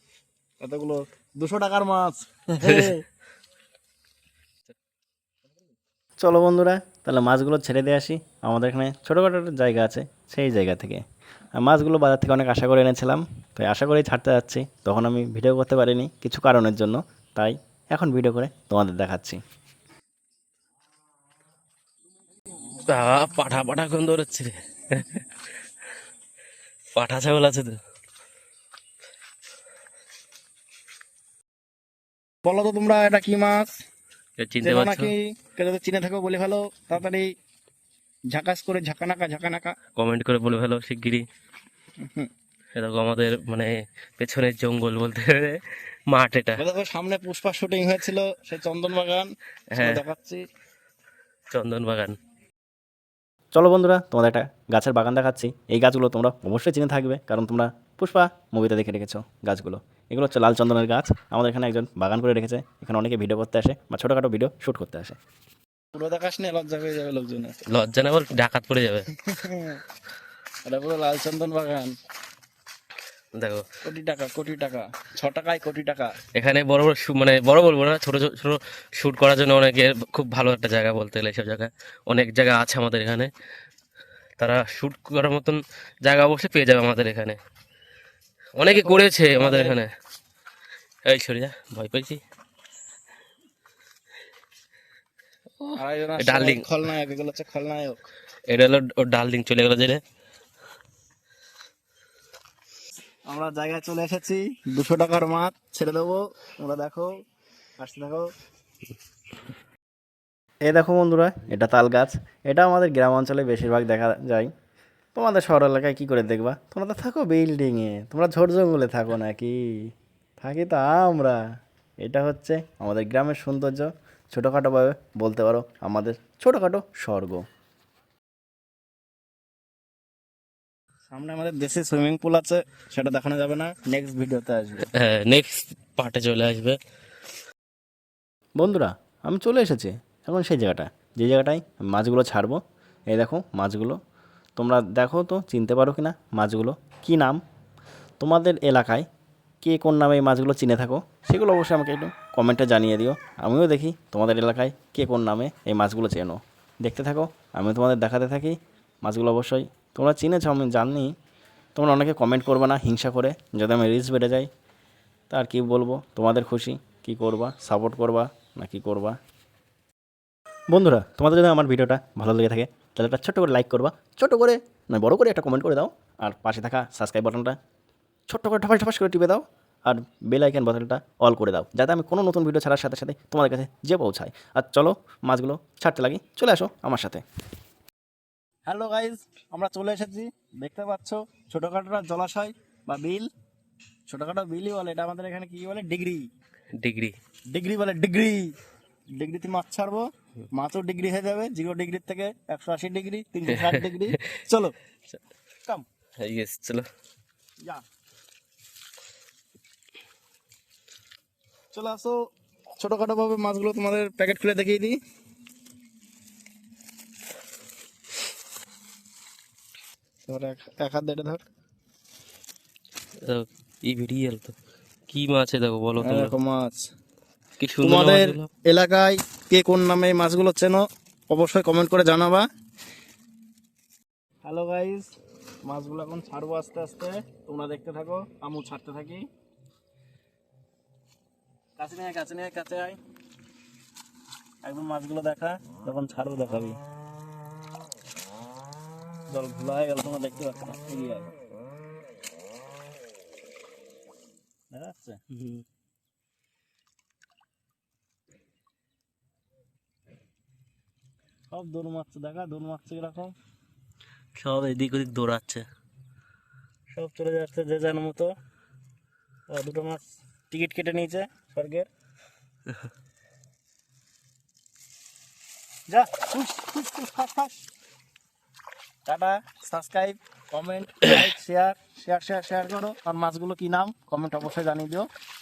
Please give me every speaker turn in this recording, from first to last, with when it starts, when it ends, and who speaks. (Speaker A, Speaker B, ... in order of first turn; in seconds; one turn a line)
Speaker A: 0.6-3.0
Speaker B: 2.6-2.9
Speaker C: 6.2-11.0
Speaker C: 11.6-19.4
Speaker B: 22.9-25.2
Speaker B: 26.9-27.8
Speaker A: 32.5-33.7
Speaker B: 34.4-35.1
Speaker A: 34.6-37.3
Speaker A: 38.3-39.8
Speaker B: 40.0-41.2
Speaker A: 42.0-42.3
Speaker B: 42.8-46.6
Speaker A: 46.6-50.4
Speaker B: 49.7-50.0
Speaker B: 51.5-52.2
Speaker C: 53.5-65.2
Speaker A: 65.9-67.6
Speaker B: 67.7-69.0
Speaker A: 69.1-69.8
Speaker A: 70.6-71.9
Speaker B: 73.3-73.6
Speaker A: 73.8-76.2
Speaker B: 76.3-83.3
Speaker B: 84.4-87.4
Speaker B: 88.6-89.9
Speaker A: 88.6-89.8
Speaker B: 91.0-92.2
Speaker B: 95.6-96.6
Speaker A: 95.8-98.0
Speaker B: 98.5-100.0
Speaker A: 103.3-107.1
Speaker A: 107.8-108.3
Speaker C: 110.7-114.5
Speaker C: 115.2-121.4
Speaker C: 122.0-123.9
Speaker A: 123.2-123.5
Speaker C: 124.5-127.4
Speaker A: 125.1-125.4
Speaker A: 126.2-126.6
Speaker A: 131.1-134.8
Speaker B: 134.9-136.8
Speaker C: 138.6-142.6
Speaker C: 143.1-144.0
Speaker C: 144.6-147.4
Speaker C: 148.2-149.1
Speaker C: 149.6-161.1
Speaker C: 161.8-164.5
Speaker C: 165.3-169.2
Speaker C: 170.7-177.6
Speaker C: 178.3-187.2
Speaker A: 188.7-193.3
Speaker A: 194.1-196.3
Speaker B: 196.8-197.1
Speaker A: 197.5-198.6
Speaker A: 199.2-204.8
Speaker B: 203.5-204.2
Speaker B: 206.2-206.9
Speaker A: 211.7-212.2
Speaker A: 212.8-215.0
Speaker A: 220.3-221.4
Speaker B: 223.2-224.6
Speaker B: 225.1-226.3
Speaker A: 226.0-226.9
Speaker B: 227.6-228.5
Speaker A: 227.8-232.5
Speaker A: 234.4-235.1
Speaker A: 235.7-239.2
Speaker A: 241.8-243.0
Speaker A: 244.6-246.8
Speaker A: 249.3-251.3
Speaker A: 254.7-255.2
Speaker B: 255.3-255.6
Speaker A: 261.5-263.4
Speaker B: 264.4-265.7
Speaker A: 266.9-268.3
Speaker A: 269.5-271.9
Speaker A: 275.9-277.6
Speaker A: 279.1-285.1